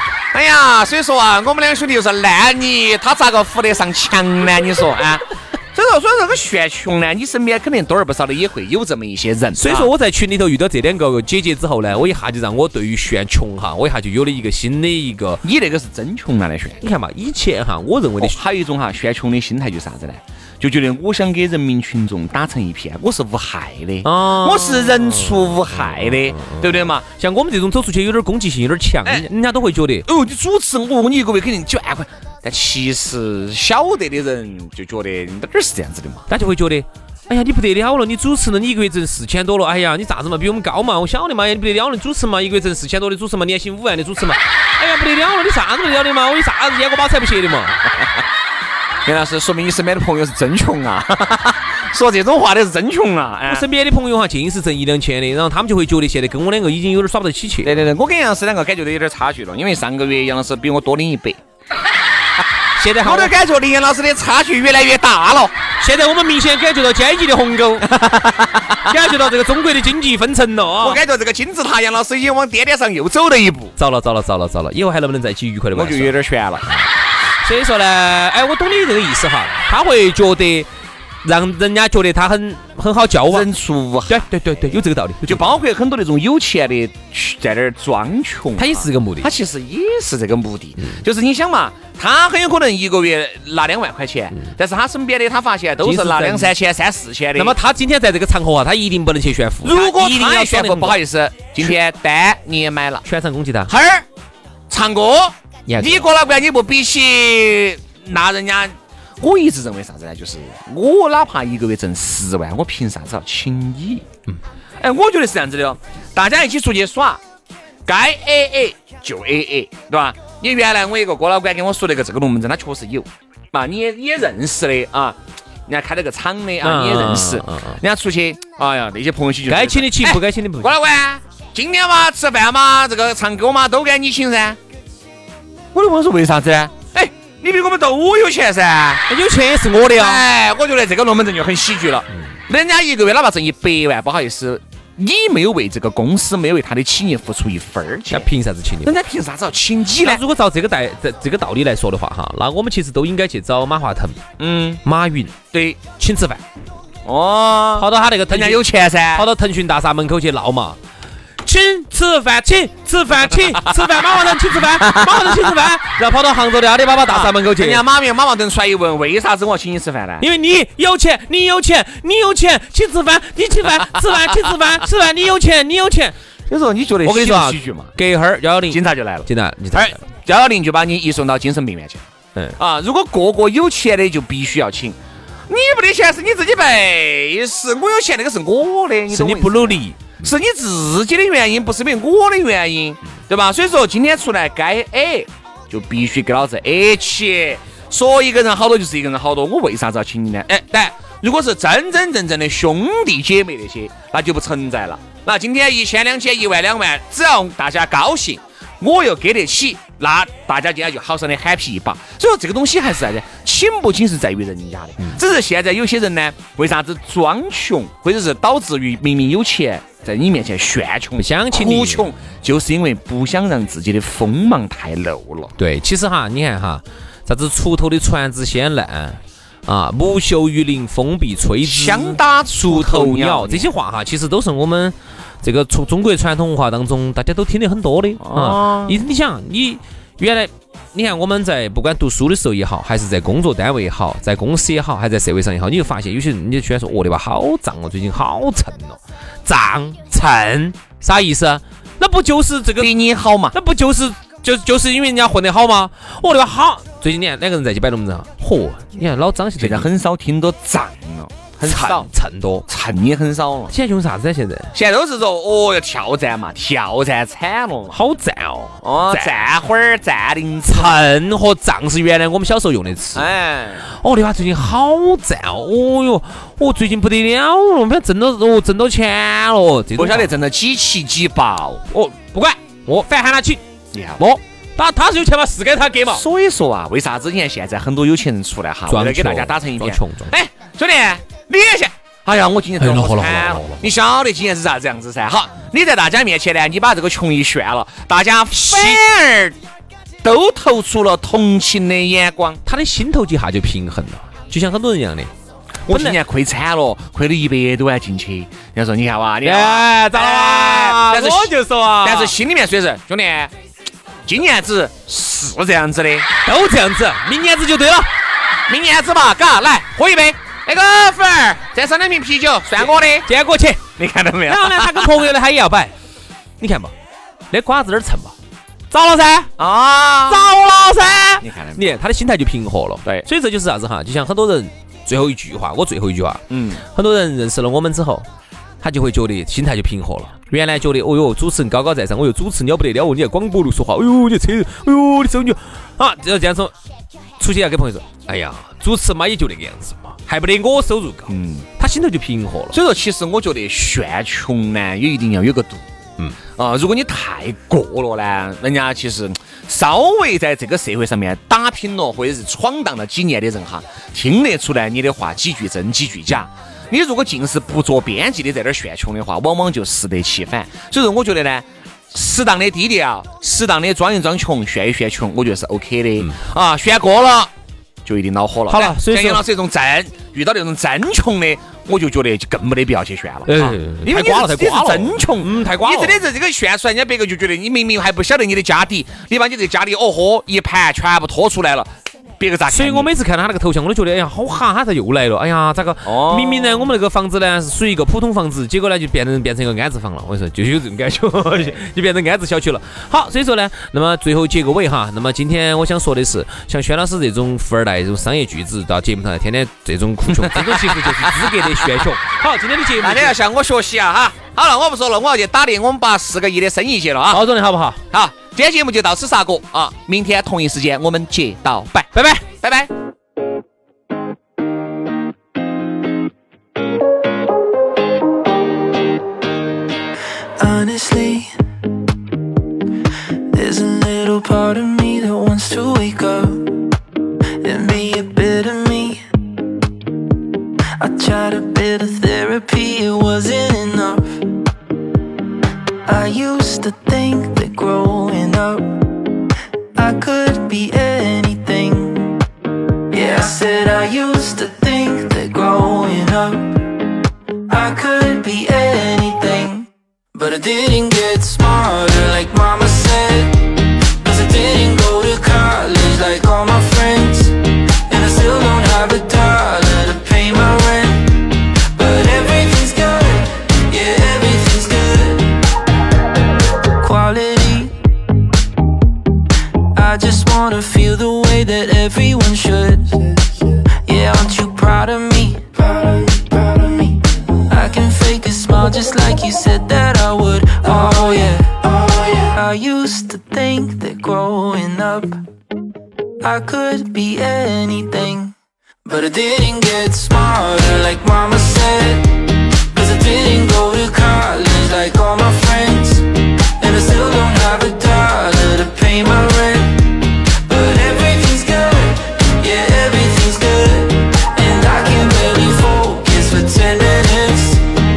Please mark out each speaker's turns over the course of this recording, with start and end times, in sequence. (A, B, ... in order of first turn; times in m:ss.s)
0:00.3-0:09.9 A
0:09.6-0:15.4 B
0:15.4-0:16.8 A
0:16.8-0:18.4 B
0:18.2-0:27.0 A
0:24.0-0:30.1 B
0:30.0-0:36.3 A
0:36.3-0:47.8 B
0:49.0-0:53.7 A
0:53.5-0:57.8 B
0:57.6-1:01.4 A
1:02.8-1:03.4 B
1:03.0-1:05.6 A
1:05.8-1:11.0 B
1:08.0-1:08.8 A
1:10.8-1:13.7 A
1:13.8-1:16.1 B
1:15.7-1:16.7 A
1:17.4-1:20.7 B
1:21.2-1:23.5 B
1:23.3-1:24.3 A
1:24.1-1:25.5 B
1:25.3-1:37.6 A
1:28.6-1:29.3 B
1:35.8-1:36.6 B
1:37.4-1:41.0 B
1:39.6-1:43.1 A
1:43.1-1:43.7 B
1:43.7-1:44.1 A
1:44.7-1:54.1 A
1:45.7-1:46.1 B
1:54.8-1:57.2 A
1:57.9-2:14.6 A
2:06.6-2:07.8 B
2:09.5-2:10.7 B
2:15.7-2:19.0 A
2:19.1-2:20.2 B
2:20.0-2:28.3 A
2:28.1-2:29.0 B
2:28.8-2:30.2 A
2:30.0-2:34.2 B
2:34.4-2:34.8 A
2:34.8-2:35.4 B
2:35.5-2:35.8 A
2:35.9-2:36.4 B
2:37.0-2:39.3 A
2:37.8-2:40.8 B
2:41.4-2:47.8 B
2:44.7-2:45.6 A
2:47.1-2:50.3 A
2:50.2-2:56.2 B
2:56.5-2:58.0 A
2:57.0-3:00.0 B
2:58.7-3:05.0 A
3:05.5-3:45.6 A
3:09.1-3:10.3 B
3:41.2-3:42.1 B
3:45.6-4:12.9 B
3:51.6-3:53.7 A
3:58.2-3:59.0 A
4:12.8-4:13.6 A
4:13.5-4:19.9 B
4:19.6-4:22.1 A
4:21.6-4:22.7 B
4:22.7-4:23.7 A
4:23.7-4:24.7 B
4:24.7-4:28.0 A
4:27.9-4:29.5 B
4:28.8-4:31.0 A
4:30.7-4:33.3 B
4:33.2-4:33.9 A
4:33.9-4:40.3 B
4:40.0-4:41.8 A
4:41.9-4:43.6 B
4:43.9-4:44.2 A
4:44.2-4:46.2 B
4:46.1-4:59.6 A
4:48.9-4:50.3 B
4:52.8-4:53.9 B
4:58.5-4:59.0 B
5:00.2-5:02.6 A
5:02.7-5:05.3 B
5:05.9-5:13.5 A
5:05.9-5:06.2 B
5:09.4-5:12.4 B
5:14.3-5:16.3 A
5:16.4-5:18.1 B
5:18.7-5:23.3 A
5:23.3-5:23.9 B
5:24.0-5:25.2 A
5:24.5-5:25.9 B
5:26.6-5:26.9 B
5:27.5-5:28.4 B
5:28.9-5:29.5 B
5:29.6-5:30.5 A
5:30.3-5:38.3 B
5:31.4-5:31.8 A
5:36.5-5:36.8 A
5:38.8-5:46.7 B
5:47.4-5:52.8 B
5:51.3-5:51.7 A
5:52.7-5:55.9 A
5:56.6-6:17.5 A
6:18.0-6:33.1 A
6:18.7-6:19.4 B
6:23.5-6:26.2 B
6:32.7-6:53.4 B
6:36.0-6:36.9 A
6:50.3-6:52.0 A
6:53.0-6:57.4 A
6:57.3-6:58.0 B
6:58.1-7:02.9 A
7:02.1-7:02.4 B
7:10.6-7:11.5 C
7:13.5-7:16.7 C
7:17.6-7:19.2 C
7:21.0-7:24.6 C
7:26.1-7:29.0 C
7:30.0-7:32.4 C
7:33.1-7:36.9 C
7:37.7-7:55.6 C
7:57.0-7:58.0 C
7:59.9-8:15.4 C
8:16.4-8:22.3 C
8:22.9-8:26.3 C
8:26.8-8:37.8 C